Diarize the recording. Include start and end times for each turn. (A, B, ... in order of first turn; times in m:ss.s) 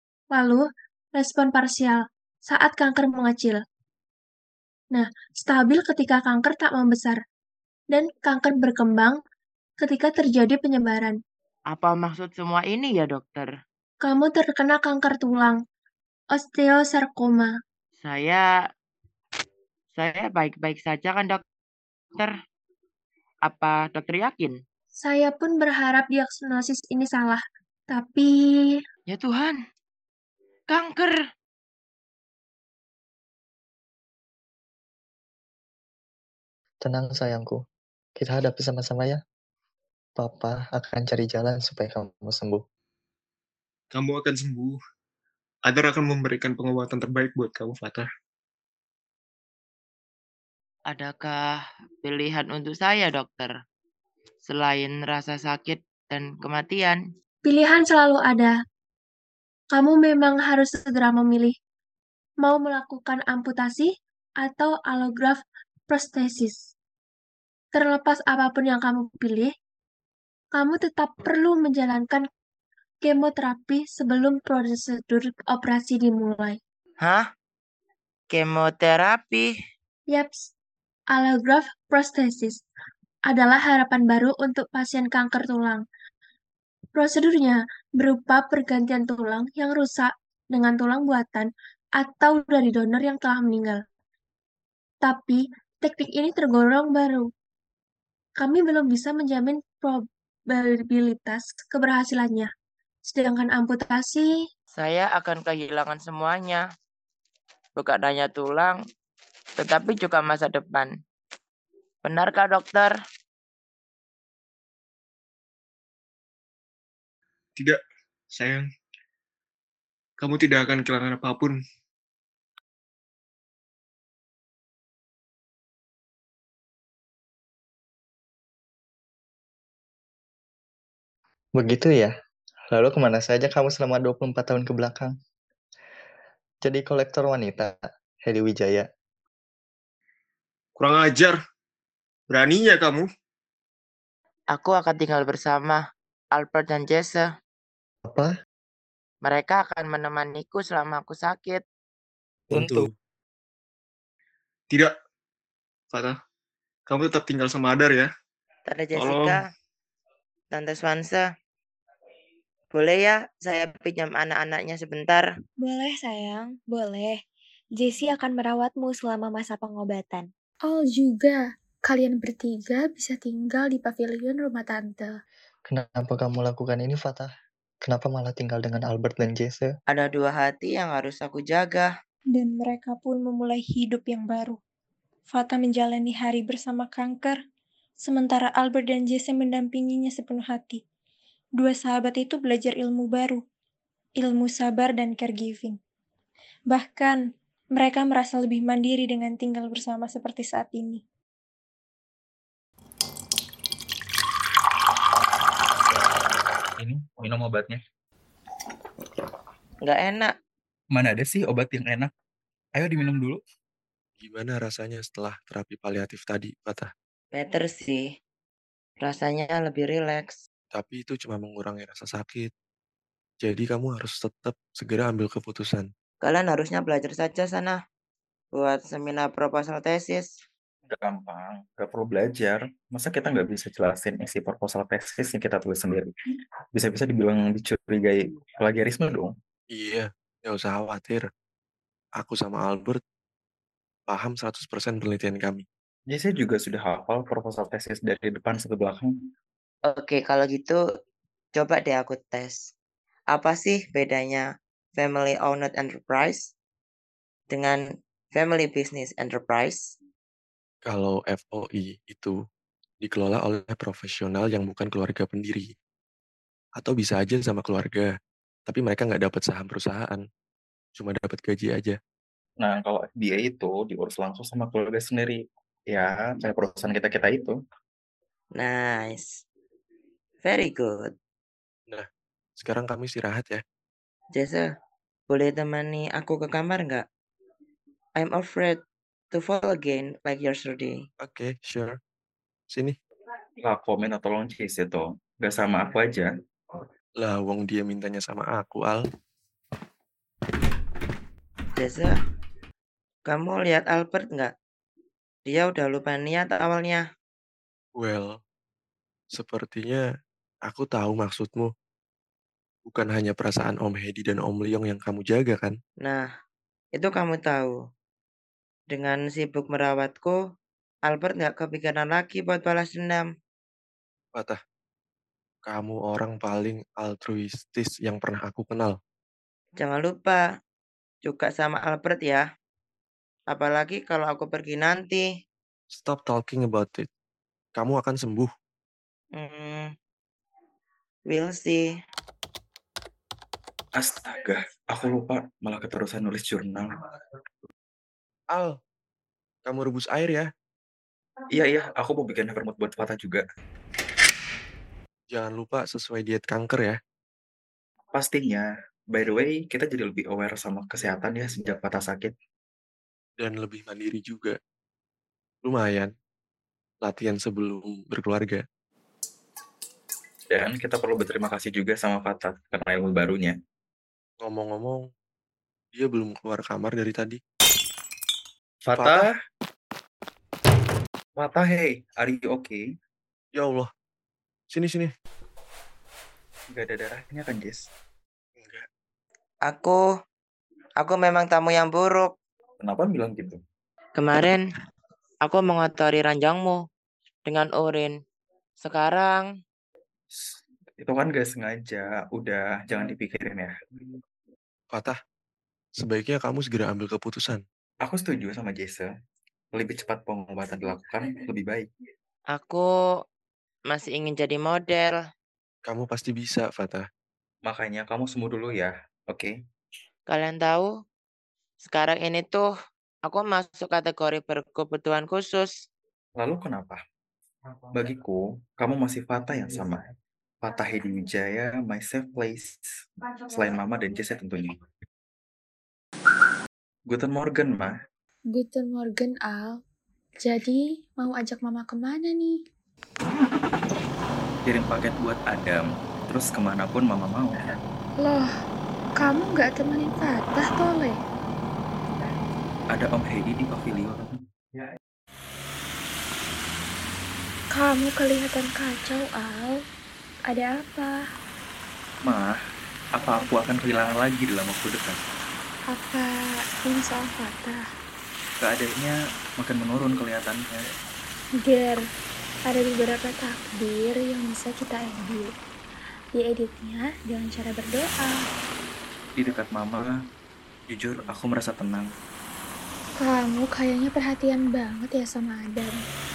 0:00.3-0:03.6 A
0:04.9-0:07.2 A
0:07.9-0:09.2 A
0:09.8-0:11.2 A
0:11.7-0:13.5 B
0:14.0-0:15.6 A
0:16.3-0:17.6 A
0:18.0-0:18.5 B
0:20.0-0:21.4 B
0:23.5-0:24.6 B
0:25.0-0:28.8 A
0:29.1-0:29.6 B
0:30.7-0:31.2 B
0:36.8-0:37.6 C
0:38.2-0:39.2 C
0:40.2-0:42.6 C
0:43.9-0:44.8 D
0:45.7-0:48.1 D
0:50.9-0:51.4 B
0:52.0-0:53.5 B
0:54.5-0:57.0 B
0:57.4-0:58.6 A
0:59.7-1:01.6 A
1:02.4-1:06.7 A
1:07.7-1:09.5 A
1:10.5-1:12.3 A
1:13.0-1:16.6 A
1:18.3-1:19.5 B
1:20.1-1:20.5 A
1:21.1-1:22.6 A
1:23.3-1:25.8 A
1:27.0-1:33.8 A
1:35.0-1:37.3 A
1:38.4-1:42.5 A
1:43.1-1:44.4 A
1:44.8-1:46.6 B
1:47.8-1:48.8 B
1:49.6-1:50.9 B
1:52.0-1:52.9 B
1:58.3-1:58.7 D
2:00.2-2:01.6 D
2:11.6-2:12.1 C
2:12.7-2:15.2 C
2:16.6-2:18.9 C
2:20.8-2:21.4 D
2:22.3-2:23.1 D
2:24.5-2:25.8 B
2:26.4-2:27.2 B
2:28.0-2:28.3 C
2:29.2-2:31.6 B
2:32.6-2:32.9 B
2:36.9-2:38.1 D
2:38.7-2:39.4 B
2:39.0-2:39.4 D
2:40.5-2:41.3 B
2:42.7-2:45.2 B
2:45.6-2:47.2 E
2:47.8-2:50.3 E
2:50.6-2:55.2 F
2:55.7-2:57.3 C
2:57.8-2:59.7 C
2:59.9-3:01.9 B
3:02.3-3:04.6 G
3:05.3-3:07.4 G
3:08.0-3:10.8 G
3:11.6-3:13.4 G
3:14.2-3:15.8 G
3:16.7-3:17.2 G
3:17.8-3:21.0 G
3:26.8-3:27.8 H
3:29.8-3:30.3 B
3:30.9-3:32.1 H
3:32.8-3:33.4 H
3:34.2-3:36.9 I
3:37.3-3:38.1 B
3:39.0-3:40.4 B
3:40.7-3:42.5 I
3:43.4-3:45.9 I
3:46.2-3:47.8 B
3:48.6-3:50.4 B
3:50.9-3:56.1 H
3:56.7-3:59.3 H
3:59.7-4:01.3 I
4:02.2-4:03.0 I
4:04.1-4:05.6 I
4:06.1-4:09.2 H
4:09.9-4:10.8 B
4:11.6-4:12.7 B
4:13.3-4:14.4 B
4:15.0-4:16.5 B
4:17.5-4:17.8 B
4:18.3-4:19.9 B
4:20.9-4:22.4 I
4:23.0-4:25.7 I
4:26.8-4:28.1 I
4:28.7-4:30.2 I
4:31.0-4:32.0 I
4:32.6-4:35.4 H
4:35.9-4:37.6 H
4:38.6-4:39.4 B
4:40.4-4:41.1 B
4:42.6-4:43.6 I
4:44.4-4:44.7 B
4:45.3-4:47.1 B
4:48.2-4:48.8 B
4:49.3-4:51.0 B
4:51.2-4:52.0 I
4:52.7-4:53.0 I
4:53.6-4:56.3 H
4:57.2-4:59.1 I
5:01.8-5:02.2 B
5:03.3-5:04.5 B
5:05.5-5:07.0 B
5:08.0-5:08.4 I
5:09.4-5:10.0 I
5:10.7-5:11.7 I
5:12.9-5:15.8 I
5:16.0-5:16.3 B
5:17.0-5:17.8 B
5:18.9-5:20.4 B
5:21.1-5:23.3 B
5:25.7-5:29.0 I
5:29.8-5:30.4 B
5:31.2-5:32.4 B
5:33.5-5:35.2 B
5:35.9-5:37.1 I
5:37.8-5:38.5 I
5:39.4-5:39.9 B
5:41.3-5:41.8 B
5:44.0-5:47.0 H
5:48.5-5:48.8 I
5:49.7-5:50.5 I
5:51.5-5:53.4 H
5:55.3-5:57.0 I
5:58.1-6:02.3 H
6:03.4-6:04.6 I
6:05.6-6:06.1 I
6:07.0-6:08.6 I
6:10.5-6:13.6 H
6:14.4-6:15.1 I
6:15.9-6:17.4 I
6:18.8-6:19.4 H
6:19.0-6:19.3 I
6:21.4-6:22.8 H
6:23.6-6:23.9 I
6:24.7-6:25.1 I
6:26.7-6:27.8 H
6:28.6-6:28.9 I
6:29.7-6:30.0 B
6:31.0-6:32.3 B
6:32.8-6:33.6 H
6:34.2-6:34.6 B
6:35.4-6:36.8 B
6:37.5-6:38.1 B
6:38.8-6:39.4 B
6:40.4-6:43.7 H
6:44.9-6:45.2 I
6:46.0-6:47.6 I
6:48.0-6:49.1 H
6:49.7-6:51.9 H
6:52.5-6:52.9 B
6:53.9-6:55.2 B
6:55.9-6:57.1 I
6:57.6-6:59.5 H
7:00.3-7:00.9 B
7:01.8-7:02.7 B
7:03.3-7:05.7 B
7:06.4-7:07.0 H
7:07.9-7:10.0 H
7:10.6-7:12.9 H
7:13.4-7:14.8 H
7:17.1-7:17.9 H
7:18.5-7:19.8 F
7:20.4-7:22.6 F
7:24.6-7:27.7 H
7:28.2-7:28.5 F
7:29.2-7:31.2 F
7:32.9-7:34.4 H
7:37.7-7:39.8 F
7:40.5-7:41.2 F
7:42.2-7:42.6 H
7:43.2-7:45.2 H
7:45.9-7:47.8 F
7:48.6-7:50.8 H
7:51.6-7:52.0 F
7:52.7-7:55.5 F
7:56.4-7:58.5 F
7:59.4-8:00.1 H
8:00.9-8:02.1 H
8:03.2-8:06.0 F